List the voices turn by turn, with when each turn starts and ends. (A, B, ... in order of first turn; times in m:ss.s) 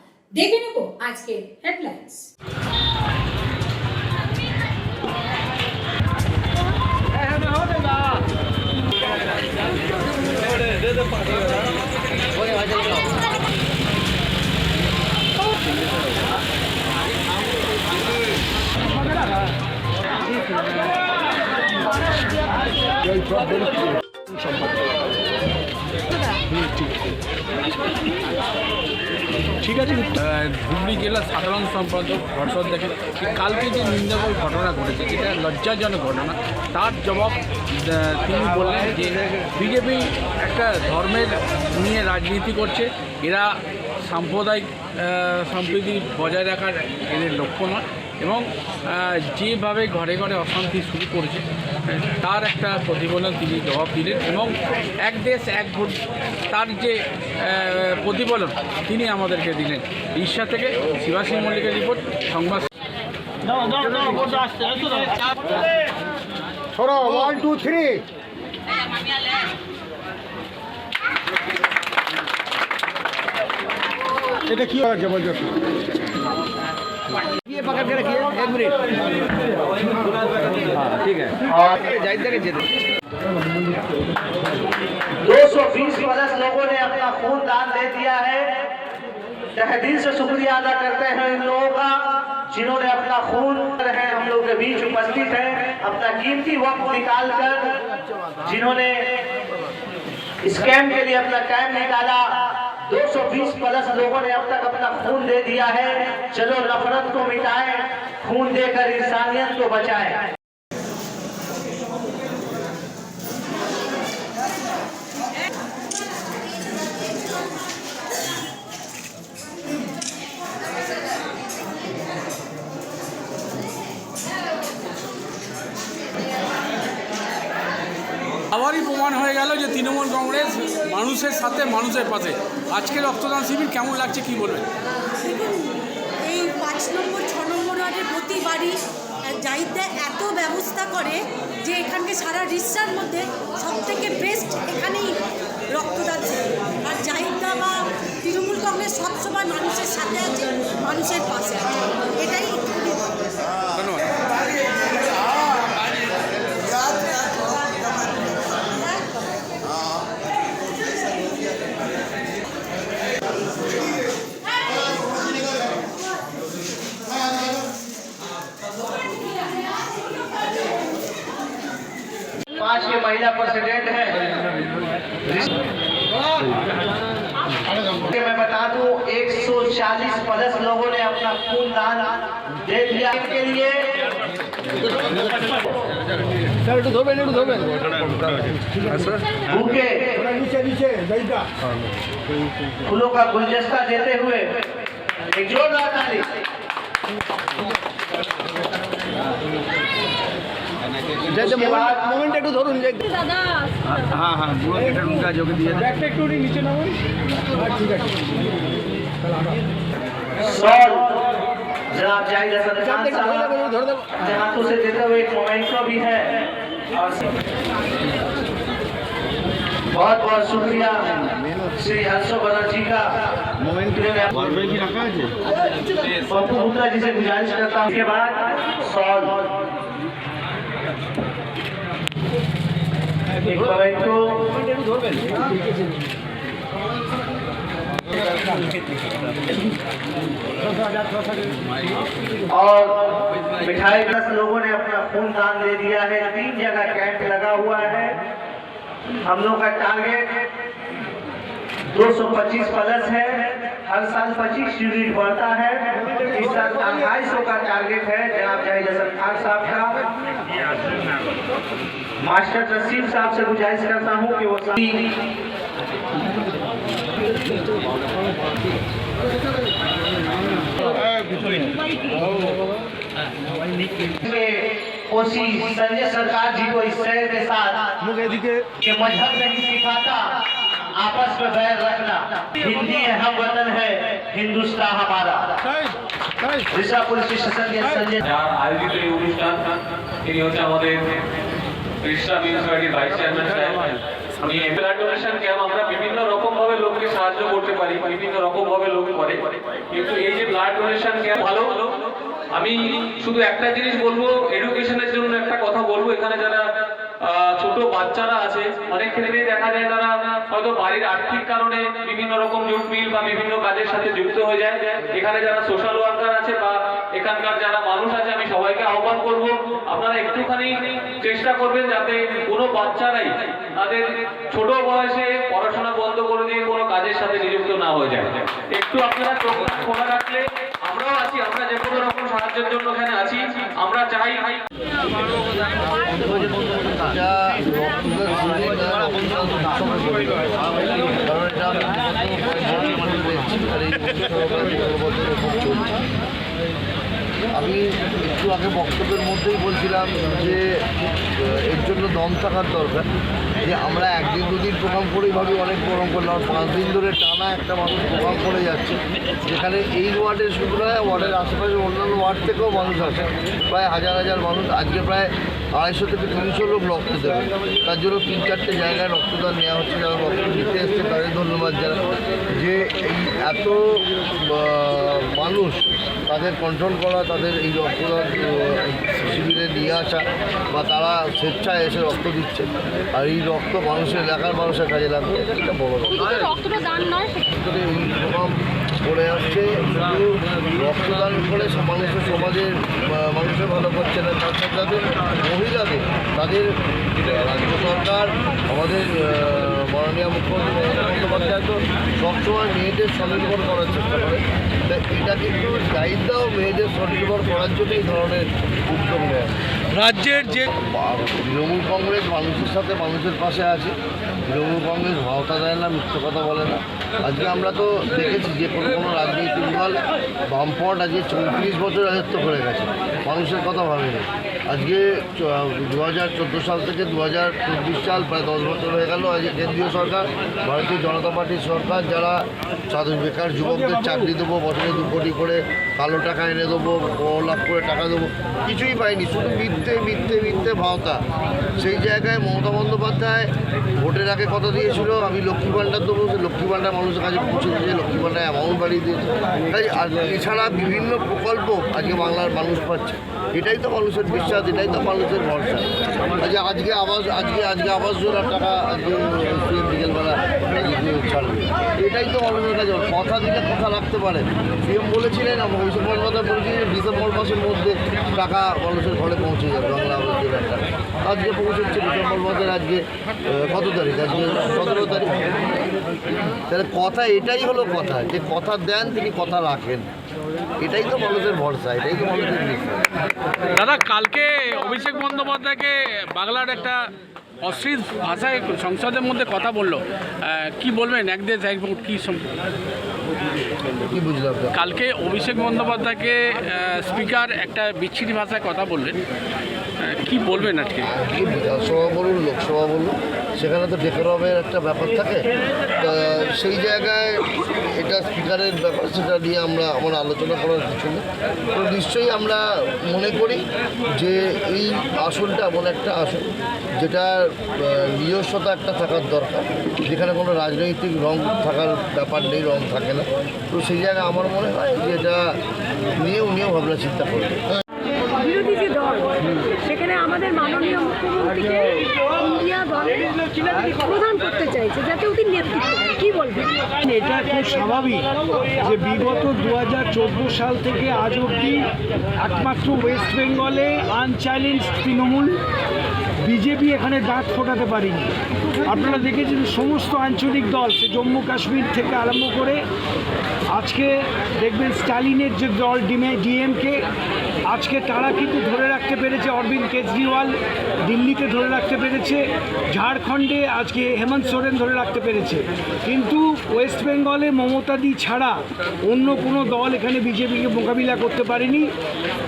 0:00.4-0:02.2 A
0:29.8-0:43.5 B
0:44.1-0:56.0 B
0:56.5-1:02.7 B
1:03.7-1:05.0 C
1:06.8-1:08.0 C
1:14.6-1:15.3 C
1:17.5-1:18.8 C
1:20.8-1:21.3 C
1:21.5-1:22.0 D
1:22.1-1:22.4 C
1:25.2-1:28.7 D
1:29.6-1:37.8 D
1:38.4-1:39.2 D
1:40.4-1:50.3 D
2:08.5-2:14.6 B
2:15.2-2:25.2 E
2:25.7-2:33.1 E
2:33.7-2:34.1 B
2:37.1-2:37.9 E
2:52.5-2:54.3 D
2:58.0-3:04.1 D
3:07.0-3:08.5 F
3:07.2-3:07.6 C
3:09.4-3:10.4 D
3:12.8-3:14.6 D
3:15.3-3:16.3 D
3:21.3-3:22.3 D
3:21.3-3:21.6 C
3:22.2-3:23.0 C
3:24.0-3:26.1 C
3:30.4-3:31.3 D
3:31.9-3:37.2 D
3:39.9-3:41.2 D
3:41.8-3:45.3 D
3:46.2-3:49.5 D
3:53.4-3:54.5 D
4:02.5-4:08.2 D
4:09.2-4:10.5 D
4:11.9-4:20.0 D
4:22.2-4:25.0 D
4:34.2-4:37.9 D
4:38.8-4:40.4 D
4:40.9-4:45.6 D
4:46.7-4:48.2 D
4:48.2-4:51.2 G
4:52.0-5:01.9 G
5:02.6-5:06.6 G
5:07.2-5:34.6 G
5:36.0-5:46.0 F
5:47.5-5:50.8 F
5:51.4-5:53.1 F
5:53.6-6:49.5 F
6:49.9-6:50.6 B
6:50.6-6:53.9 F
6:54.5-7:21.2 F
7:21.8-7:55.5 F
7:56.7-8:00.1 F
8:00.8-8:03.0 F
8:03.7-8:07.0 B
8:07.6-8:12.5 B
8:14.1-8:14.8 F
8:14.7-8:19.2 B
8:20.0-8:21.1 B
8:21.0-8:25.5 F
8:26.0-8:33.6 F
8:34.2-8:36.5 F
8:37.0-8:45.6 F
8:46.2-8:47.6 F
8:48.4-8:56.7 A
8:57.0-9:01.9 H
9:02.4-9:05.6 H
9:06.4-9:08.3 H
9:08.8-9:12.8 H
9:13.7-9:17.0 H
9:17.7-9:31.9 H